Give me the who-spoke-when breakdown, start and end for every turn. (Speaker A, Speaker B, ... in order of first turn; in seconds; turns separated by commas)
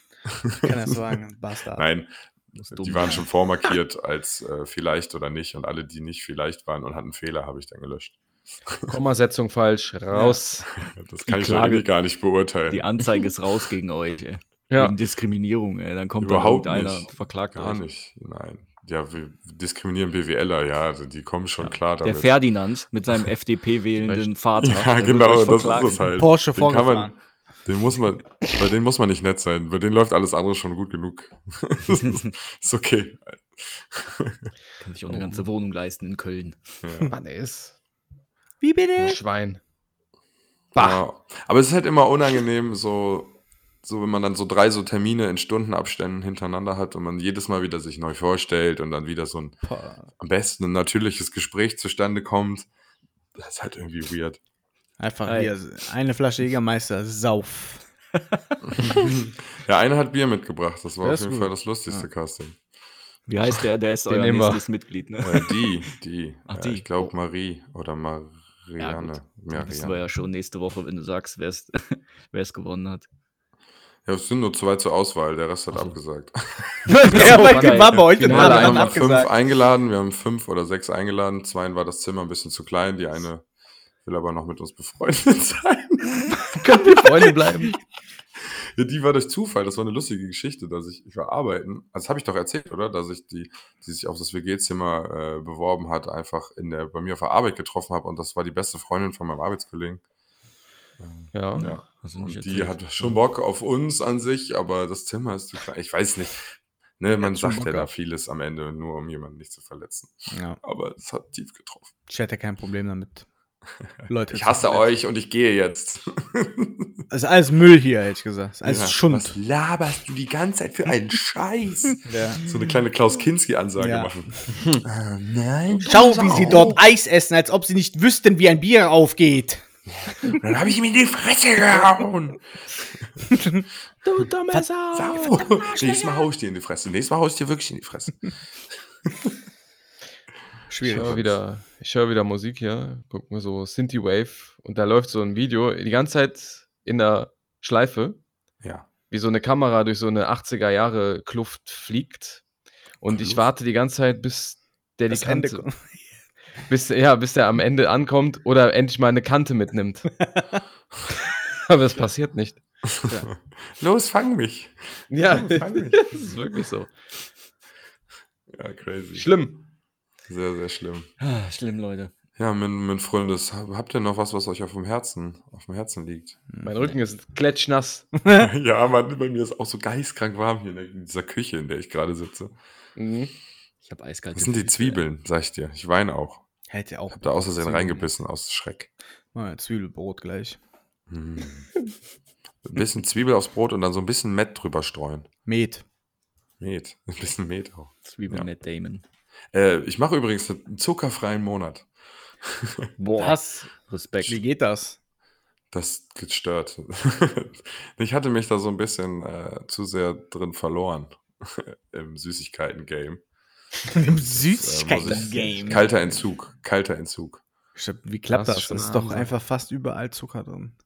Speaker A: 0.2-1.0, Speaker B: 0.6-1.8, Speaker A: 1.7-9.0, Speaker C: 2.8-3.3, Speaker D: 8.9-10.7, Speaker B: 10.1-10.4, Speaker A: 10.7-13.2, Speaker C: 11.2-11.9, Speaker C: 12.7-17.8, Speaker A: 16.2-22.4, Speaker C: 21.6-26.1, Speaker D: 24.0-24.3, Speaker A: 24.6-34.5, Speaker B: 26.1-27.1, Speaker C: 31.9-32.3, Speaker C: 34.8-36.6, Speaker D: 35.1-35.4, Speaker A: 36.8-37.1, Speaker D: 37.1-37.7, Speaker B: 38.6-39.2, Speaker D: 39.0-39.6, Speaker A: 40.7-49.6, Speaker D: 40.8-41.0, Speaker B: 49.6-50.1, Speaker A: 50.2-52.7, Speaker A: 53.3-54.4, Speaker B: 55.0-57.9, Speaker C: 55.2-55.5, Speaker A: 58.7-62.6, Speaker B: 61.0-62.0, Speaker C: 63.3-65.9, Speaker D: 64.1-64.6, Speaker A: 65.2-70.0, Speaker C: 66.5-67.1, Speaker C: 68.8-73.1, Speaker A: 74.0-77.2, Speaker C: 75.7-76.0, Speaker B: 76.9-79.3, Speaker D: 77.0-79.0, Speaker C: 77.1-78.8, Speaker A: 78.2-83.4, Speaker A: 84.0-86.4, Speaker D: 86.5-87.8, Speaker A: 88.4-100.0, Speaker A: 101.0-111.9, Speaker D: 101.3-101.7, Speaker C: 101.5-103.2, Speaker B: 107.2-107.9, Speaker B: 110.3-110.6, Speaker B: 112.1-113.2, Speaker B: 114.1-114.9, Speaker A: 114.3-117.0, Speaker B: 117.1-119.4, Speaker A: 118.6-126.8, Speaker B: 122.0-122.4, Speaker B: 123.8-124.1, Speaker B: 125.8-129.6, Speaker A: 129.9-132.4, Speaker B: 133.3-133.6, Speaker D: 134.0-136.2, Speaker A: 134.9-138.2, Speaker A: 139.0-139.3, Speaker B: 140.7-141.1, Speaker D: 140.8-148.2, Speaker A: 140.8-141.4, Speaker A: 148.6-148.9, Speaker D: 149.1-152.4, Speaker D: 153.0-155.7, Speaker A: 153.1-153.5, Speaker B: 155.1-156.1, Speaker D: 156.7-160.1, Speaker B: 160.2-160.6, Speaker D: 161.6-162.6, Speaker A: 162.9-166.2, Speaker D: 165.1-166.9, Speaker A: 168.5-169.3, Speaker D: 169.1-169.6, Speaker A: 170.3-171.1, Speaker C: 171.2-172.1, Speaker A: 172.4-176.4, Speaker B: 176.5-176.8, Speaker D: 176.6-178.1, Speaker A: 178.3-182.5, Speaker D: 182.9-183.3, Speaker C: 183.8-185.0, Speaker A: 184.3-186.4, Speaker B: 186.7-188.1, Speaker A: 187.1-188.9, Speaker B: 189.3-190.6, Speaker A: 191.1-191.7, Speaker A: 192.6-195.3, Speaker B: 195.4-195.8, Speaker A: 196.6-198.5, Speaker C: 198.0-199.0, Speaker A: 199.5-201.9, Speaker A: 202.4-202.9, Speaker C: 203.0-204.4, Speaker B: 203.2-203.7, Speaker B: 204.2-205.0, Speaker A: 205.7-213.2, Speaker B: 213.9-216.1, Speaker A: 214.0-217.4, Speaker B: 217.7-220.7, Speaker D: 218.3-219.2